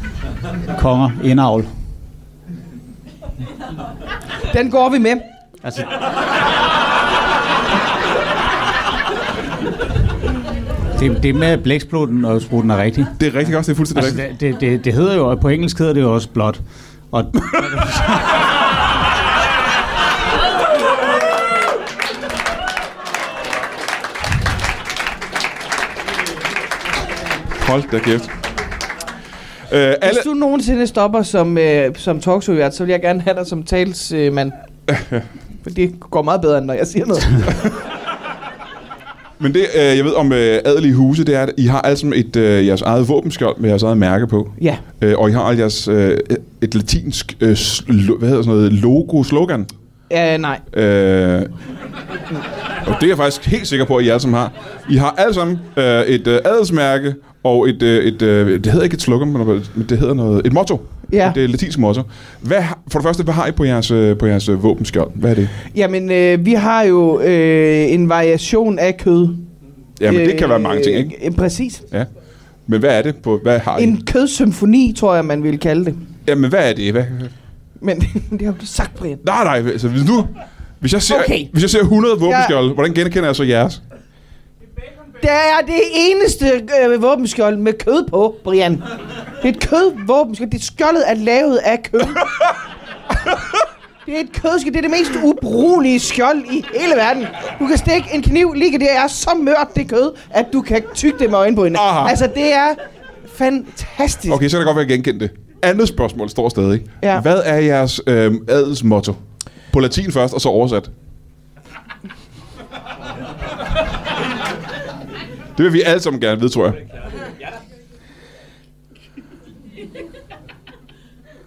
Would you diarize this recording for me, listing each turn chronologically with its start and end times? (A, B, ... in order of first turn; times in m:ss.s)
0:00.7-0:01.7 A
0:04.5-0:05.2 B
0:05.6-0:05.9 A
0:10.9-0:16.6 A
0:13.2-0:14.2 C
0:17.1-0:18.4 A
0:27.5-0:28.3 C
0:29.7-0:30.3 C
0:30.0-0:34.5 B
0:34.9-0:35.2 C
0:35.6-0:37.7 B
0:39.4-0:49.7 C
0:50.1-0:50.6 B
0:50.7-0:51.5 C
0:52.8-1:05.5 C
1:01.1-1:01.4 B
1:05.7-1:09.4 B
1:10.0-1:11.1 C
1:10.0-1:11.8 B
1:12.7-1:14.0 C
1:13.8-1:16.0 B
1:16.2-1:17.3 C
1:17.8-1:19.2 B
1:19.2-1:23.8 C
1:21.1-1:21.5 B
1:22.2-1:22.6 B
1:25.2-1:32.5 B
1:34.0-1:44.4 B
1:41.7-1:42.2 C
1:44.3-1:50.9 C
1:55.5-1:56.8 C